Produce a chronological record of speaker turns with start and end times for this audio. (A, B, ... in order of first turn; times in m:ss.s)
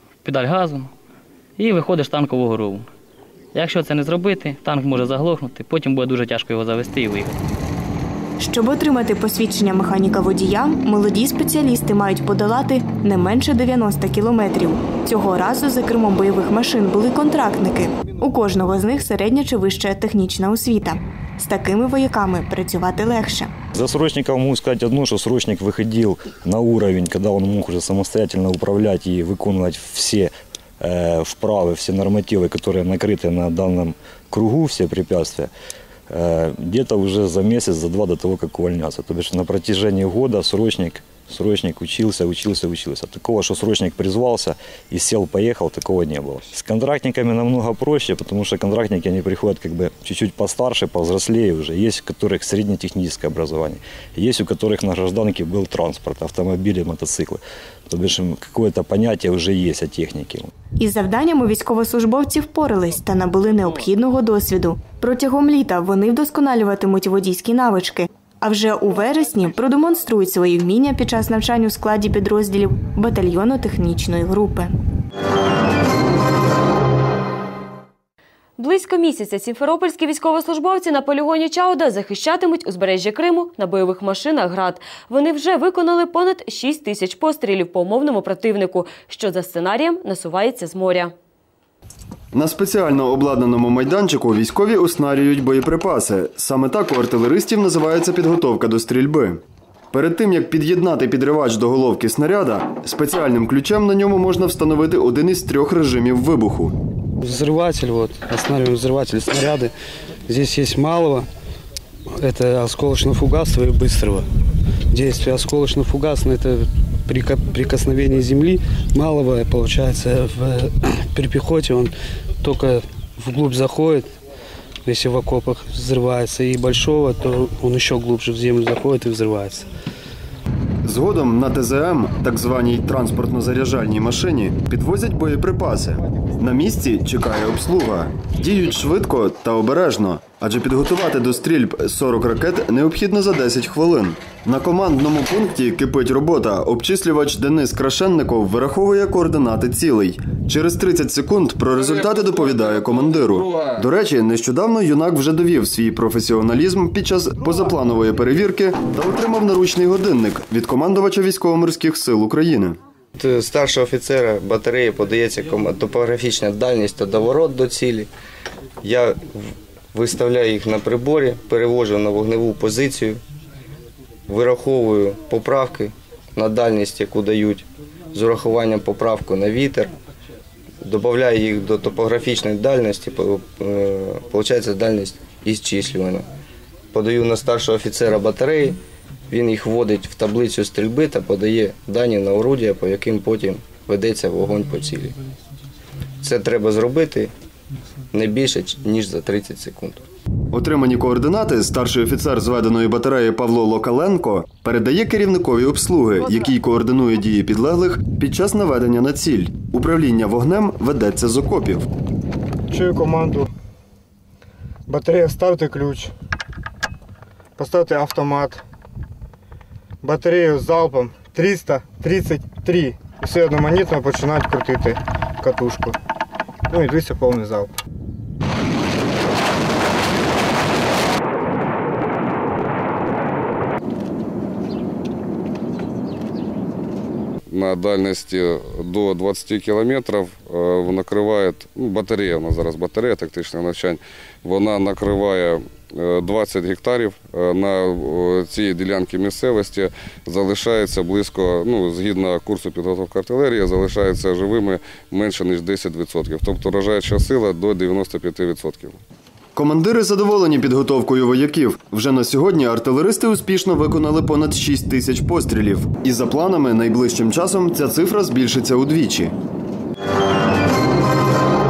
0:00.2-0:00.9 A
0:01.6-0:02.9 A
0:03.5-0:07.4 A
0:08.4-0:23.5 B
0:23.7-0:35.5 C
0:36.1-1:00.5 C
1:00.8-1:14.7 B
1:18.6-1:31.1 D
1:32.3-1:39.4 E
1:39.9-1:46.7 E
1:47.2-1:49.7 F
1:50.3-1:51.3 F
1:52.2-1:54.2 F
1:54.9-2:04.1 F
2:04.8-2:09.7 F
2:10.8-2:42.8 E
2:33.1-2:33.7 G
2:43.2-2:48.1 H
2:48.8-2:49.4 H
2:49.9-2:53.2 H
2:54.3-2:59.9 H
3:00.8-3:06.2 H
3:06.9-3:08.8 H
3:09.3-3:15.1 H
3:16.2-3:17.3 H
3:18.1-3:20.0 H
3:20.5-3:31.9 E
3:32.7-3:33.5 I
3:34.9-3:36.1 I
3:37.6-3:38.6 I
3:40.0-3:46.0 I
3:46.7-3:47.7 I
3:57.5-4:19.0 G
4:19.6-4:29.3 E